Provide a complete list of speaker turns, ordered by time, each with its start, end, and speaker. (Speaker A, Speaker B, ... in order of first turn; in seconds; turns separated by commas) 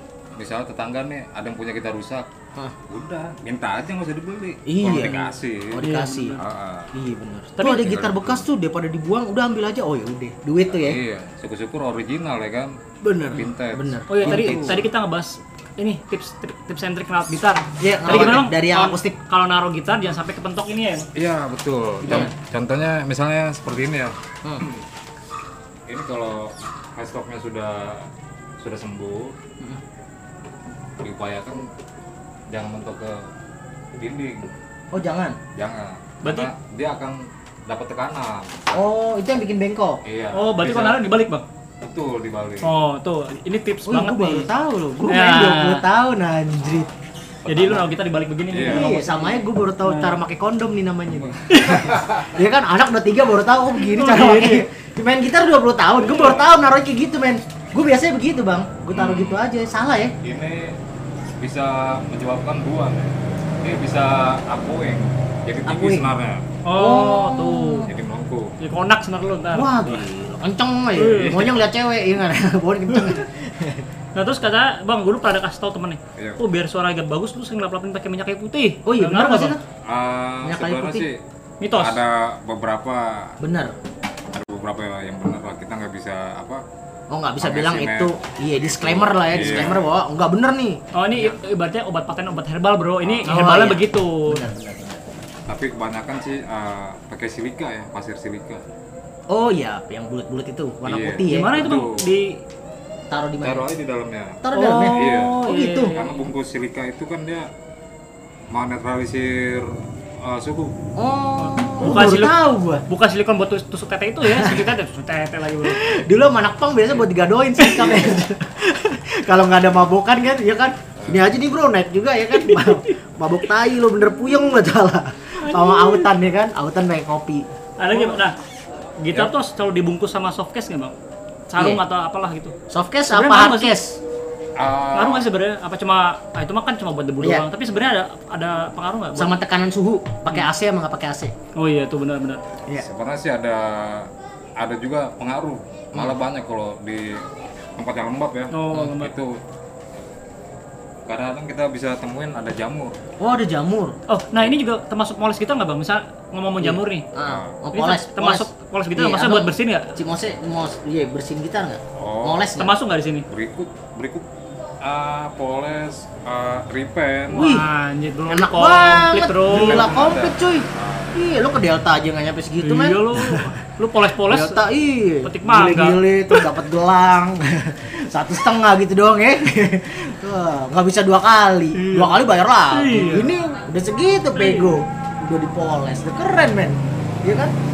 Speaker A: 0.4-2.3, Speaker A: 2.9-6.9, Speaker B: 4.7-6.4, Speaker C: 5.8-6.4, Speaker B: 6.9-11.0, Speaker C: 7.6-7.8, Speaker A: 7.6-8.4, Speaker A: 10.7-12.8, Speaker B: 13.0-14.8, Speaker A: 13.3-14.8, Speaker C: 14.1-21.1, Speaker B: 17.8-19.1, Speaker A: 21.1-24.8, Speaker B: 22.0-22.3, Speaker A: 25.9-28.1, Speaker A: 28.6-29.3, Speaker A: 31.0-31.6, Speaker A: 32.5-33.2, Speaker A: 34.0-34.5, Speaker B: 34.9-35.4, Speaker A: 35.6-38.8, Speaker C: 36.2-36.5, Speaker B: 38.7-40.0, Speaker A: 40.0-41.0, Speaker C: 40.3-41.4, Speaker A: 41.8-42.7, Speaker C: 42.6-44.5, Speaker B: 43.9-46.9, Speaker C: 45.1-45.8, Speaker C: 47.5-50.2, Speaker A: 47.5-47.8, Speaker A: 48.5-49.0, Speaker B: 48.6-60.1, Speaker C: 51.5-51.9, Speaker A: 51.6-52.3, Speaker C: 53.8-54.6, Speaker A: 56.1-56.4, Speaker A: 58.9-59.4, Speaker A: 60.2-60.8, Speaker A: 61.4-66.4, Speaker B: 65.6-66.1, Speaker C: 66.7-67.9, Speaker B: 66.7-67.9, Speaker A: 67.9-68.6, Speaker C: 68.6-70.0, Speaker B: 69.5-73.9, Speaker C: 70.9-71.4, Speaker A: 71.1-71.6, Speaker C: 74.1-79.5, Speaker A: 76.2-76.4, Speaker B: 78.8-79.6, Speaker A: 79.8-81.2, Speaker B: 80.4-81.1, Speaker C: 81.6-82.0, Speaker A: 81.8-83.4, Speaker B: 83.4-83.7, Speaker A: 84.3-86.6, Speaker B: 87.1-91.3, Speaker A: 87.4-89.8, Speaker C: 90.9-94.4, Speaker A: 93.0-93.5, Speaker B: 93.3-95.1, Speaker A: 95.5-98.6, Speaker B: 99.3-101.7, Speaker A: 100.8-102.0, Speaker C: 101.3-102.4, Speaker B: 103.1-103.7, Speaker A: 103.4-105.4, Speaker B: 104.4-106.0, Speaker C: 104.5-106.3, Speaker A: 105.9-107.5, Speaker A: 108.5-110.7, Speaker B: 111.0-112.8, Speaker C: 111.4-112.3, Speaker C: 112.9-115.8, Speaker B: 114.2-114.7, Speaker B: 115.6-128.2, Speaker C: 122.4-122.9, Speaker C: 125.4-126.1, Speaker C: 127.8-128.4, Speaker C: 129.0-130.9, Speaker C: 131.5-132.5, Speaker B: 132.7-134.0, Speaker C: 133.1-133.8, Speaker A: 134.6-135.3, Speaker C: 134.9-139.3, Speaker B: 137.2-137.4, Speaker B: 139.2-141.3, Speaker C: 141.6-142.4, Speaker A: 142.8-147.2, Speaker A: 147.8-149.4, Speaker C: 148.5-149.1, Speaker A: 151.1-153.0, Speaker B: 153.2-153.9, Speaker C: 154.1-157.1, Speaker B: 156.6-162.7, Speaker A: 157.2-157.6, Speaker C: 157.7-159.9, Speaker A: 161.9-162.4, Speaker C: 162.6-163.2, Speaker A: 163.3-164.2, Speaker A: 164.8-167.5, Speaker C: 167.3-170.0, Speaker B: 167.3-167.7, Speaker B: 168.3-173.6, Speaker A: 169.5-171.2, Speaker C: 172.6-174.6, Speaker B: 174.3-187.6, Speaker C: 175.2-176.0, Speaker C: 181.8-182.2, Speaker C: 182.7-183.3, Speaker C: 184.4-184.8